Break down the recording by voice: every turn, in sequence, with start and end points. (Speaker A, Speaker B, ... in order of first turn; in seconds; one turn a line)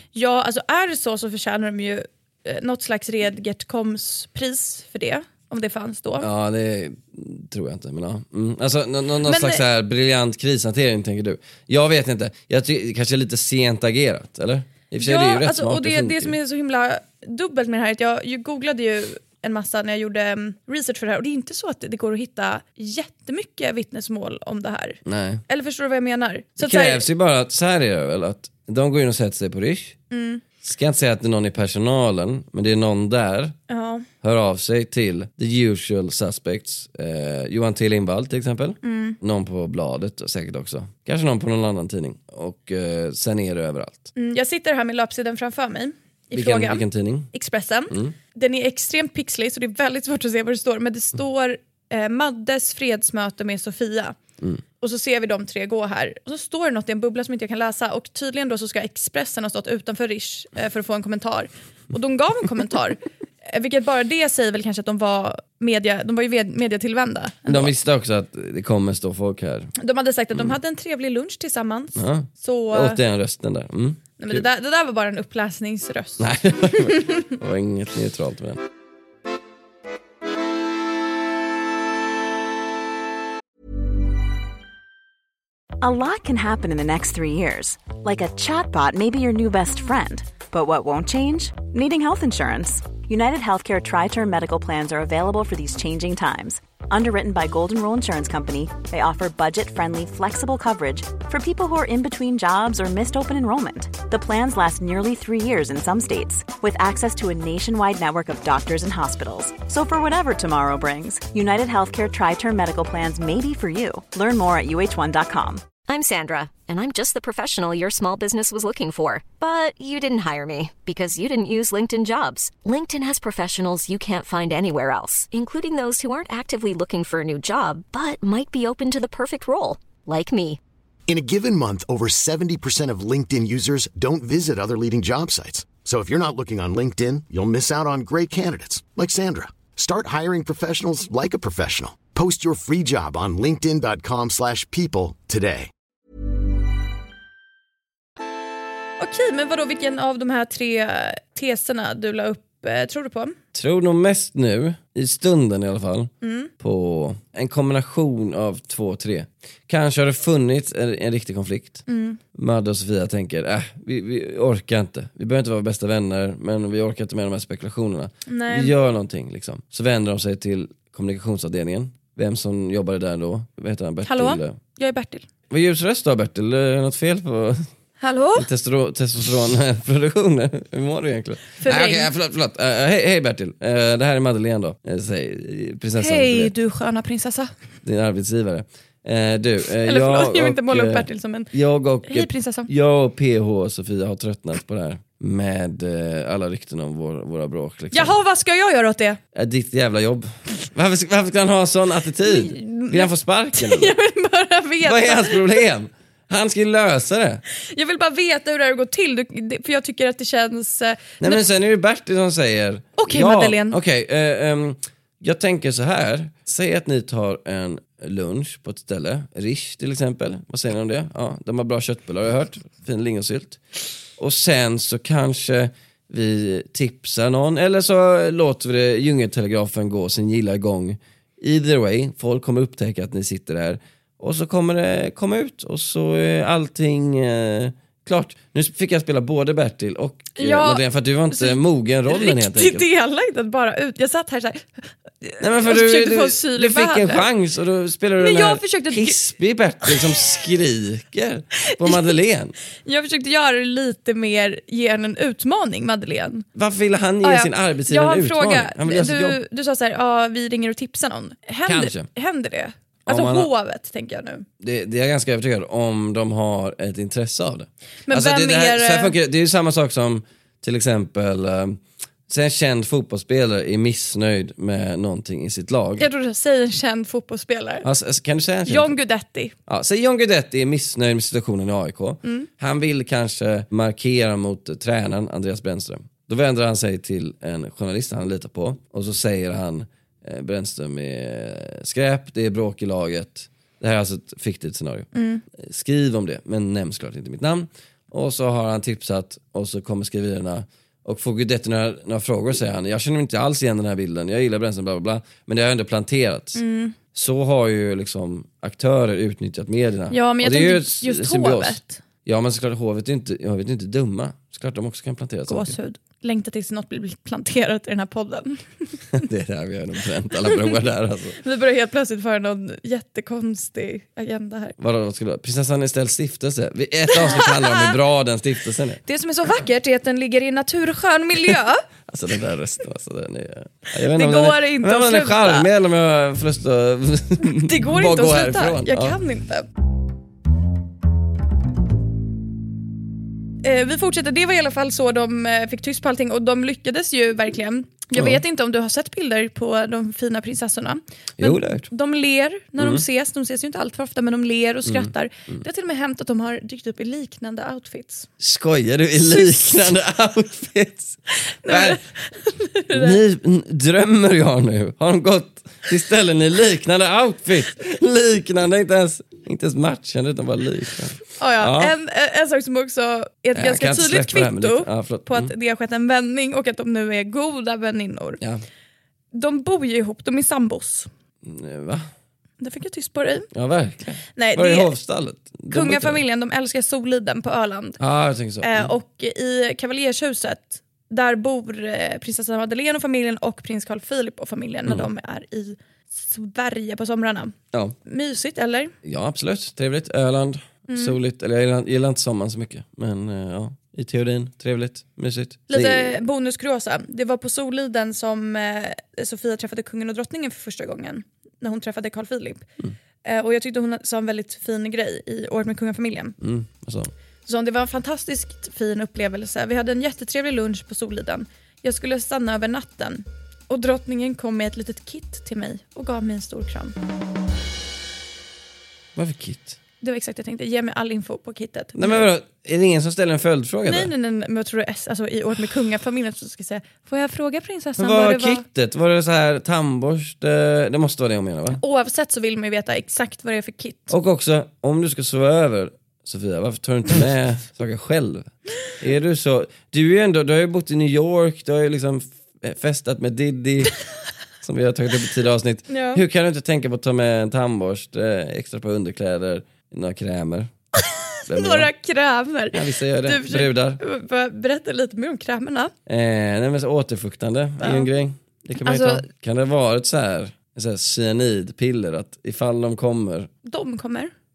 Speaker A: 0.1-6.3
Speaker B: 6.2-16.4
Speaker A: 9.2-9.6
Speaker A: 15.0-27.0
Speaker B: 25.1-25.4
Speaker B: 26.6-30.0
Speaker A: 30.1-30.4
Speaker B: 30.6-33.5
Speaker A: 33.7-34.0
Speaker B: 34.2-44.1
Speaker A: 38.8-39.2
Speaker A: 44.1-54.2
Speaker B: 46.3-47.3
Speaker A: 54.8-67.7
Speaker B: 67.5-69.7
Speaker A: 69.8-73.0
Speaker B: 72.0-74.4
Speaker A: 74.2-77.3
Speaker B: 76.2-78.6
Speaker C: 85.8-115.7
Speaker D: 115.9-130.6
Speaker E: 131.1-145.7
Speaker A: 149.0-153.4
Speaker B: 153.5-161.8
Speaker A: 156.2-156.5
Speaker A: 161.9-162.2
Speaker B: 162.3-174.6
Speaker A: 168.3-168.7
Speaker A: 174.0-175.2
Speaker B: 175.5-177.7
Speaker A: 178.0-178.5
Speaker B: 178.4-186.5
Speaker A: 181.6-182.1
Speaker A: 186.0-187.5
Speaker B: 187.8-198.1
Speaker A: 189.8-191.5
Speaker A: 192.1-192.7
Speaker A: 197.9-199.2
Speaker B: 199.3-203.9
Speaker A: 202.3-205.5
Speaker B: 204.8-207.4
Speaker A: 207.6-211.4
Speaker B: 211.2-223.6
Speaker A: 213.0-213.8
Speaker B: 224.2-242.9
Speaker A: 240.4-247.2
Speaker B: 245.4-252.5
Speaker A: 248.2-249.2
Speaker A: 251.7-252.1
Speaker A: 252.8-256.4
Speaker B: 256.5-259.4
Speaker A: 257.2-264.5
Speaker B: 261.7-262.1
Speaker B: 263.1-263.5
Speaker B: 264.6-276.1
Speaker A: 268.1-269.1
Speaker A: 276.0-277.9
Speaker B: 277.8-278.9
Speaker A: 278.6-279.5
Speaker B: 279.7-306.6
Speaker A: 282.2-282.5
Speaker A: 295.1-295.4
Speaker A: 306.5-307.0
Speaker B: 307.1-315.7
Speaker A: 310.1-312.0
Speaker A: 315.5-319.0
Speaker B: 319.1-321.4
Speaker A: 321.4-324.8
Speaker B: 324.8-329.0
Speaker A: 327.1-327.9
Speaker A: 329.0-331.9
Speaker B: 332.1-339.2
Speaker A: 334.0-335.7
Speaker A: 337.4-339.7
Speaker A: 343.6-358.3
Speaker B: 348.1-348.4
Speaker B: 351.4-351.9
Speaker B: 352.8-353.0
Speaker B: 354.9-355.6
Speaker B: 358.4-362.0
Speaker A: 359.3-359.7
Speaker A: 361.4-363.2
Speaker B: 362.9-371.9
Speaker A: 371.4-378.4
Speaker B: 373.5-375.5
Speaker A: 379.3-381.1
Speaker B: 381.4-382.1
Speaker A: 382.6-383.5
Speaker B: 383.5-386.2
Speaker A: 384.4-384.9
Speaker A: 385.7-388.0
Speaker B: 388.0-388.9
Speaker A: 388.6-398.9
Speaker B: 399.0-406.1
Speaker A: 400.9-401.2
Speaker A: 405.7-412.6
Speaker A: 413.2-416.4
Speaker B: 416.4-417.1
Speaker A: 417.4-426.9
Speaker B: 429.1-429.8
Speaker A: 430.0-432.3
Speaker B: 431.9-434.1
Speaker A: 433.9-438.6
Speaker B: 438.0-441.8
Speaker A: 441.8-444.1
Speaker B: 444.1-453.9
Speaker B: 454.6-460.7
Speaker A: 455.9-456.2
Speaker A: 461.1-465.9
Speaker B: 461.5-461.9
Speaker B: 462.7-464.0
Speaker B: 466.1-473.5
Speaker A: 467.8-468.1
Speaker A: 468.8-469.3
Speaker A: 473.6-474.3